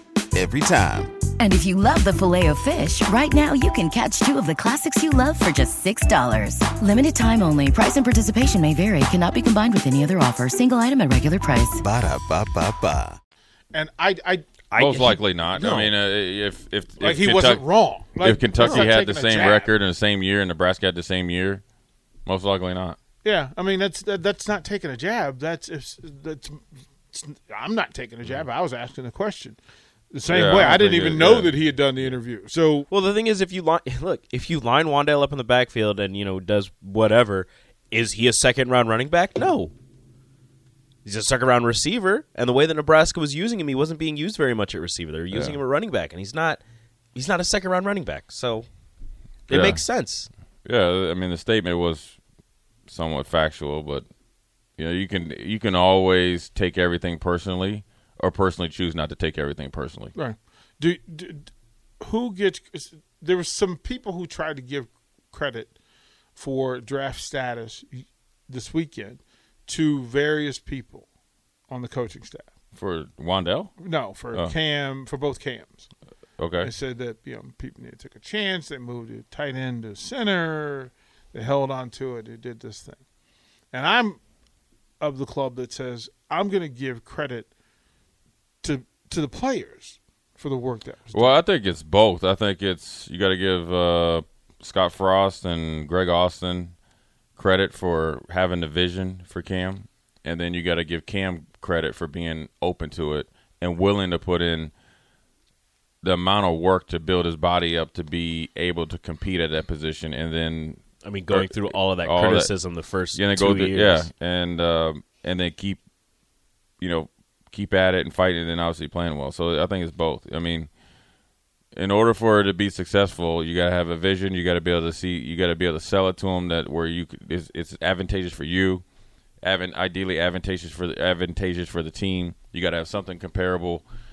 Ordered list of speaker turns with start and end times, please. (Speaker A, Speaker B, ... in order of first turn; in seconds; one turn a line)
Speaker A: 0.3-1.1
Speaker B: 1.4-11.8
Speaker A: 11.8-13.2
Speaker C: 13.7-14.6
Speaker D: 14.7-15.9
Speaker E: 14.8-17.6
Speaker C: 17.0-19.7
Speaker E: 18.2-21.6
Speaker D: 18.6-18.9
Speaker E: 22.2-23.0
Speaker C: 23.2-29.6
Speaker C: 30.1-32.9
Speaker E: 30.2-31.6
Speaker D: 32.9-39.7
Speaker D: 41.0-46.6
Speaker E: 45.3-45.6
Speaker D: 47.1-48.7
Speaker D: 49.5-50.3
Speaker E: 49.5-49.8
Speaker E: 50.6-52.2
Speaker E: 52.9-54.1
Speaker E: 54.8-60.1
Speaker C: 60.1-65.8
Speaker C: 66.3-71.1
Speaker C: 71.7-72.5
Speaker E: 72.7-74.5
Speaker C: 73.8-75.9
Speaker E: 76.4-76.7
Speaker C: 76.6-83.0
Speaker C: 83.7-84.2
Speaker C: 85.0-87.5
Speaker C: 88.6-91.3
Speaker E: 91.1-96.8
Speaker E: 97.4-104.7
Speaker E: 106.0-112.5
Speaker D: 111.0-114.1
Speaker E: 113.1-115.8
Speaker E: 116.8-120.7
Speaker E: 121.8-128.8
Speaker E: 129.4-133.9